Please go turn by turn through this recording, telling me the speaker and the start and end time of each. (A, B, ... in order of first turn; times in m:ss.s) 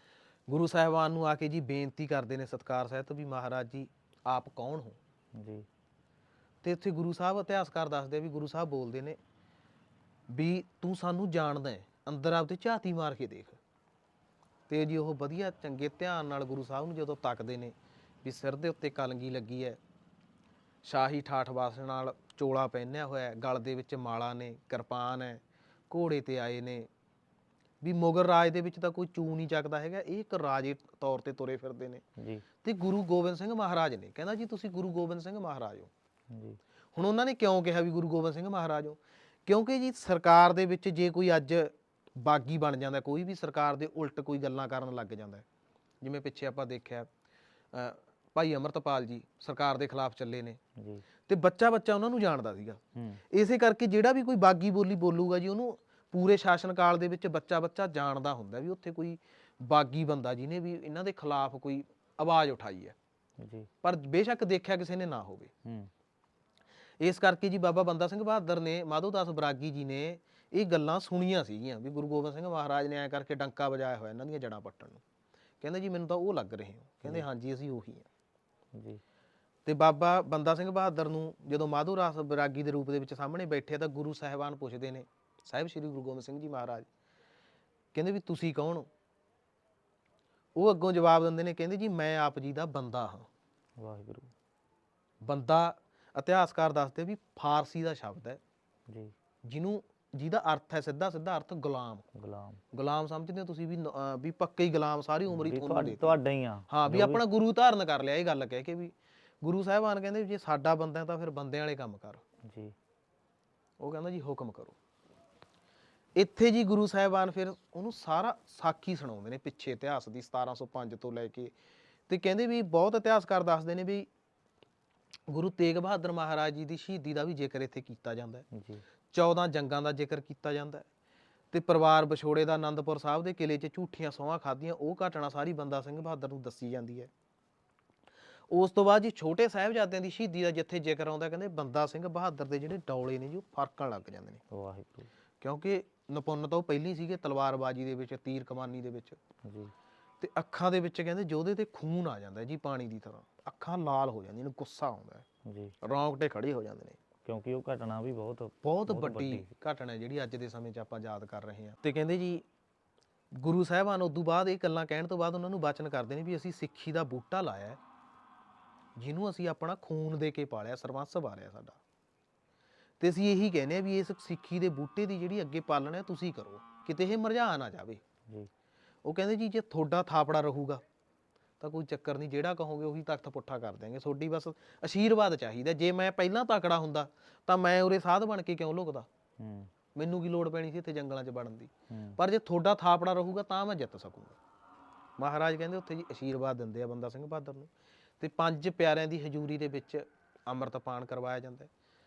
0:00.5-0:05.0 A
0:05.4-0:05.7 B
0:06.6-0:09.2 A
0:10.3-0:13.6 A
0:14.7-0:19.8 A
0:20.8-0:26.9 A
0:27.8-0:32.0 A
0:32.2-0:32.4 B
0:32.6-0:35.9 A
0:36.3-0:36.6 B
0:37.0-0:45.4 A
0:46.0-0:47.1 A
0:47.7-0:50.6 A
0:50.8-0:51.0 B
0:51.3-1:03.0 A
0:53.0-0:53.2 B
1:03.4-1:03.7 B
1:03.8-1:05.5 A
1:05.6-1:05.9 B
1:07.0-1:15.0 A
1:15.6-1:18.1 A
1:18.7-1:19.0 B
1:19.7-1:26.9 A
1:27.9-1:28.9 A
1:30.6-1:33.3 A
1:33.8-1:34.3 B
1:35.2-1:38.4 A
1:38.9-1:39.1 B
1:39.5-1:42.1 A
1:42.2-1:42.6 B
1:42.7-1:46.2 A
1:45.3-1:47.2 B
1:46.7-1:52.2 A
1:52.4-1:52.8 B
1:53.8-1:54.8 A
1:56.2-2:01.5 A
2:02.1-2:04.1 A
2:05.3-2:08.5 A
2:08.5-2:08.8 B
2:09.1-2:10.9 A
2:11.5-2:17.1 A
2:18.5-2:24.4 A
2:24.5-2:25.1 B
2:25.4-2:29.2 A
2:29.4-2:29.7 B
2:30.2-2:35.2 A
2:35.5-2:35.8 B
2:35.8-2:37.0 A
2:37.2-2:39.5 B
2:38.6-2:42.4 A
2:43.4-2:47.8 A
2:49.0-2:51.8 A
2:53.0-2:58.0 A
2:59.0-3:00.8 A
3:01.6-3:09.1 A
3:09.4-3:09.7 B
3:10.0-3:14.4 A
3:11.9-3:12.2 B
3:15.2-3:17.7 A
3:18.2-3:21.7 A